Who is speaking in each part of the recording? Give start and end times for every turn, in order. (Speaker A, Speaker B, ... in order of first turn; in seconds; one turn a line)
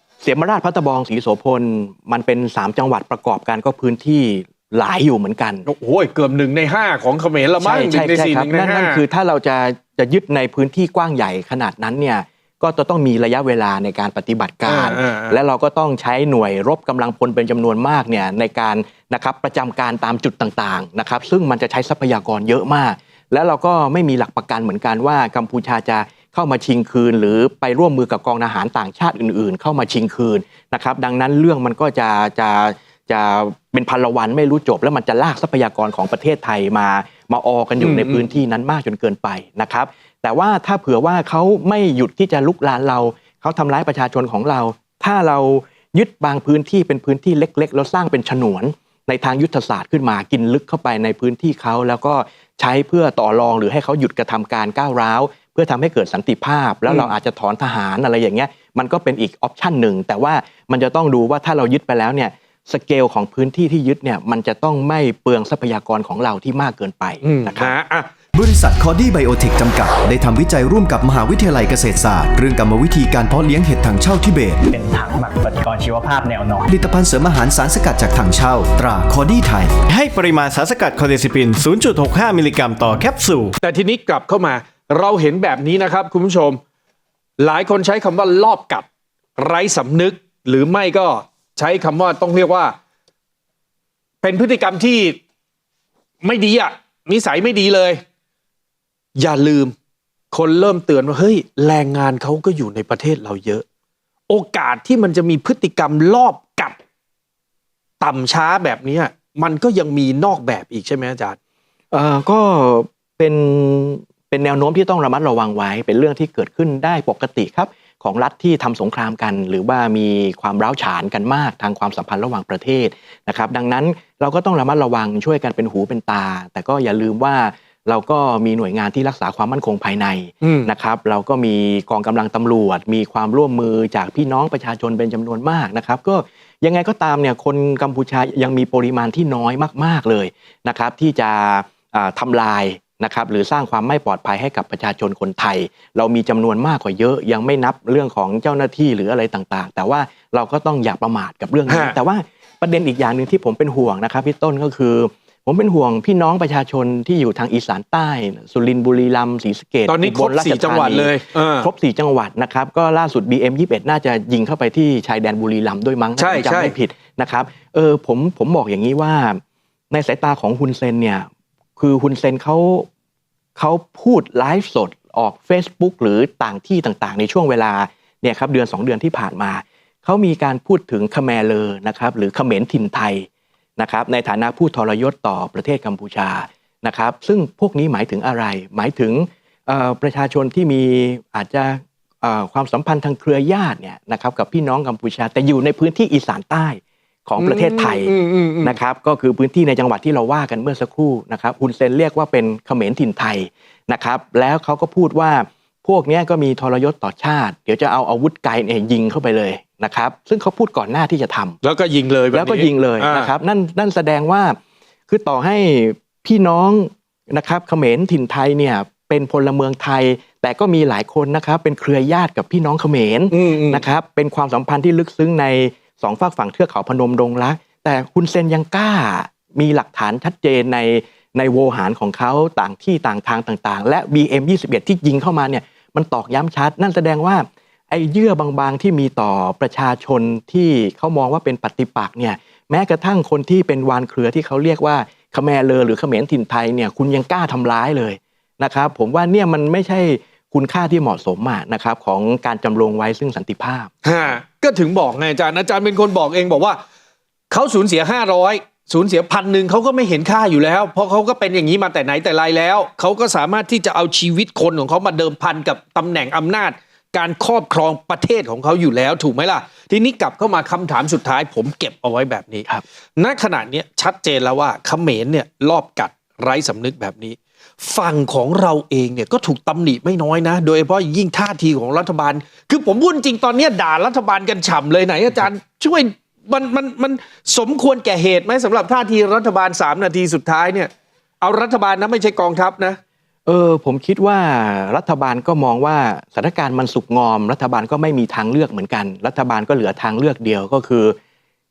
Speaker A: 0.2-5.7
Speaker B: 5.7-9.0
Speaker A: 7.6-67.8
Speaker B: 14.7-15.4
Speaker B: 37.8-38.2
Speaker B: 67.2-68.1
Speaker C: 68.3-74.7
Speaker D: 74.7-76.7
Speaker C: 76.7-79.9
Speaker E: 79.9-83.5
Speaker B: 83.6-86.6
Speaker B: 87.4-88.8
Speaker B: 89.4-92.7
Speaker B: 94.2-95.2
Speaker B: 96.2-98.0
Speaker B: 99.2-99.7
Speaker B: 100.3-103.6
Speaker B: 104.3-106.7
Speaker B: 108.0-111.3
Speaker A: 111.9-172.9
Speaker B: 130.4-130.7
Speaker B: 151.7-151.9
Speaker B: 159.9-161.7
Speaker B: 166.2-166.7
Speaker A: 173.6-183.3
Speaker A: 183.8-211.6
Speaker B: 197.4-198.8
Speaker B: 211.6-213.3
Speaker A: 212.3-214.6
Speaker A: 215.1-254.4
Speaker B: 223.3-223.8
Speaker B: 254.0-256.8
Speaker B: 257.5-290.9
Speaker B: 291.4-293.0
Speaker A: 293.4-301.1